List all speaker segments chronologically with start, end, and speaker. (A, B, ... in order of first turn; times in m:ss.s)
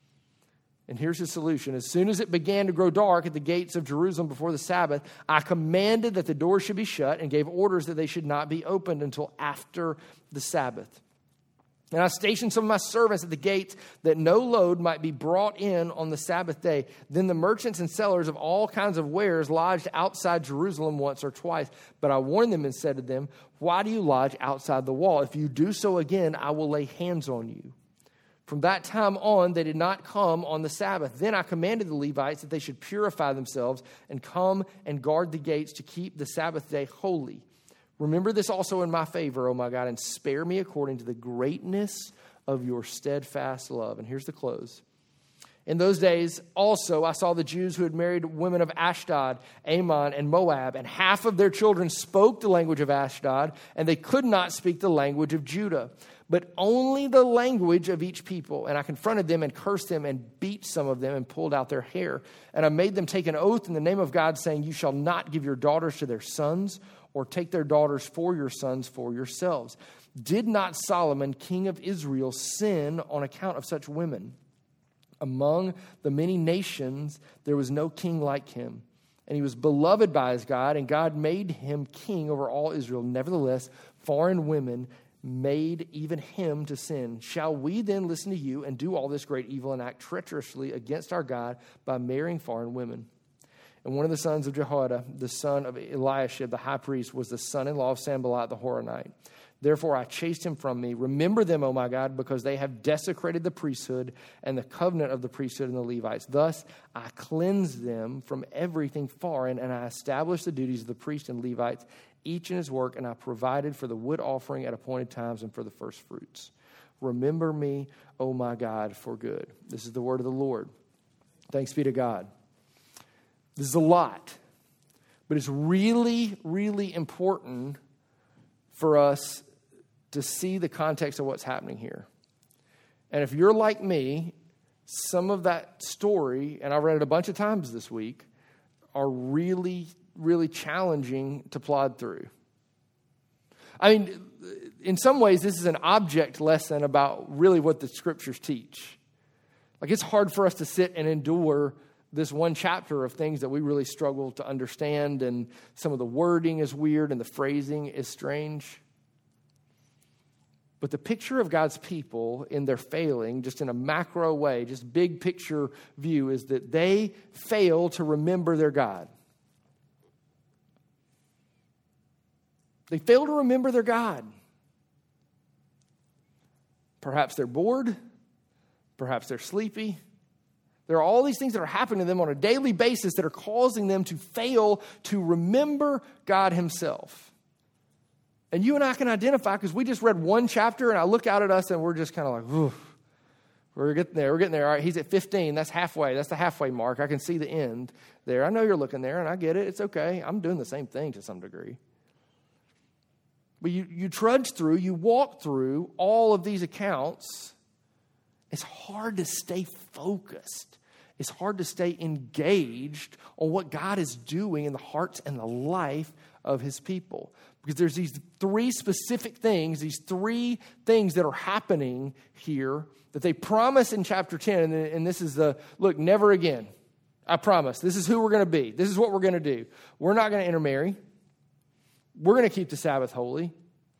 0:00.9-0:11.0 A
0:11.9-0:27.8 A
0:28.4-0:37.4 A
0:38.0-0:44.8 A
0:45.6-1:14.4 A
1:15.2-1:33.1 A
1:33.8-2:00.7 A
2:01.5-2:02.3 A
2:03.6-2:04.4 A
2:05.3-2:07.8 A
2:08.7-2:09.4 A
2:10.1-2:12.1 A
2:13.1-2:14.3 A
2:14.8-2:18.3 A
2:18.9-2:22.3 A
2:23.8-2:29.0 A
2:29.8-2:38.8 A
2:40.8-2:49.1 A
2:52.9-2:54.3 A
2:57.0-2:58.0 A
2:59.0-3:00.0 A
3:00.9-3:07.3 A
3:08.5-3:12.9 A
3:13.7-3:21.8 A
3:23.6-3:27.5 A
3:28.5-3:46.7 A
3:47.3-3:51.0 A
3:52.2-3:53.5 A